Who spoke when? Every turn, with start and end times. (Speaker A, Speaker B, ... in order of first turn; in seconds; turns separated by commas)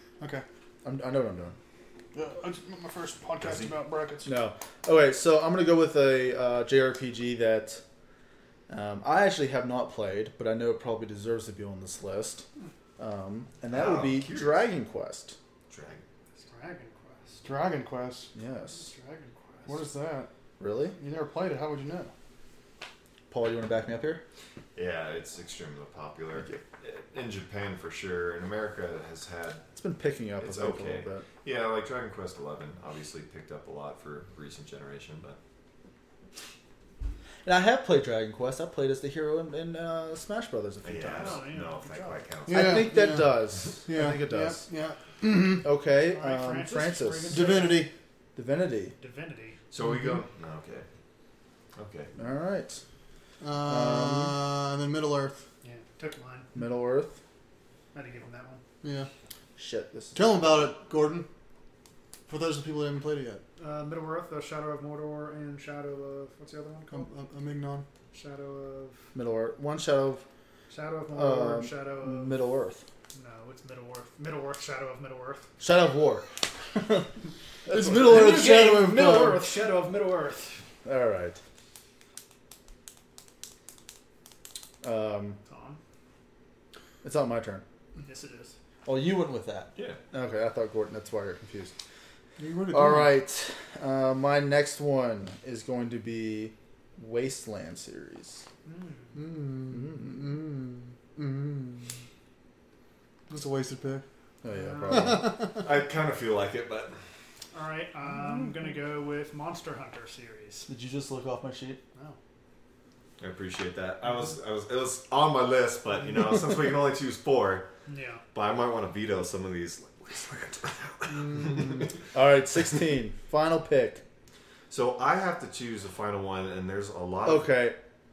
Speaker A: 0.2-0.5, Speaker B: 0.8-1.6, Speaker A: 2.1-4.3, Speaker C: 3.4-3.7, Speaker B: 4.2-7.8, Speaker B: 8.7-12.4, Speaker B: 13.0-15.4, Speaker C: 13.7-14.7, Speaker C: 15.7-16.0, Speaker D: 16.4-17.5, Speaker A: 17.4-18.3, Speaker B: 18.4-18.9, Speaker D: 18.7-19.9, Speaker A: 19.7-20.3, Speaker B: 20.6-21.0, Speaker A: 21.0-22.1, Speaker B: 23.3-24.2, Speaker C: 24.8-29.6, Speaker B: 29.8-31.2, Speaker C: 30.4-35.4, Speaker B: 37.5-41.4, Speaker C: 40.8-42.9, Speaker D: 41.0-42.3, Speaker A: 42.5-45.7, Speaker B: 42.5-44.6, Speaker B: 45.5-47.6, Speaker D: 46.1-47.9, Speaker A: 47.3-47.9, Speaker B: 48.4-49.0, Speaker D: 49.0-49.6, Speaker C: 49.7-50.9, Speaker A: 49.8-50.2, Speaker C: 51.8-52.1, Speaker B: 52.2-52.8, Speaker A: 53.4-55.4, Speaker B: 53.6-54.4, Speaker D: 55.6-56.5, Speaker B: 56.5-57.2, Speaker D: 57.9-58.6, Speaker A: 58.8-59.1, Speaker B: 59.6-60.4, Speaker A: 60.1-61.3, Speaker A: 62.3-63.4, Speaker D: 63.6-67.1, Speaker A: 66.9-67.9, Speaker D: 68.1-69.0, Speaker B: 69.1-70.2, Speaker D: 70.7-72.4, Speaker B: 71.1-72.8, Speaker D: 73.1-75.5, Speaker B: 75.6-77.1, Speaker B: 77.7-78.4, Speaker A: 77.7-79.5, Speaker D: 78.0-80.6, Speaker B: 80.8-81.4, Speaker B: 84.8-85.4, Speaker D: 85.5-85.8, Speaker B: 87.0-87.6, Speaker D: 88.0-88.5, Speaker B: 88.8-91.7, Speaker A: 92.4-93.1, Speaker B: 92.7-98.4, Speaker D: 98.7-99.2, Speaker A: 99.1-102.0, Speaker B: 99.7-100.2, Speaker A: 103.3-104.0, Speaker B: 104.4-105.4, Speaker D: 104.5-105.2, Speaker A: 104.9-105.6, Speaker C: 105.5-107.0, Speaker D: 107.5-110.7, Speaker B: 110.7-111.8, Speaker C: 113.2-117.7, Speaker D: 117.9-118.2, Speaker C: 118.3-121.9, Speaker A: 121.1-121.9, Speaker B: 122.1-124.0, Speaker C: 124.7-127.6, Speaker B: 127.2-127.8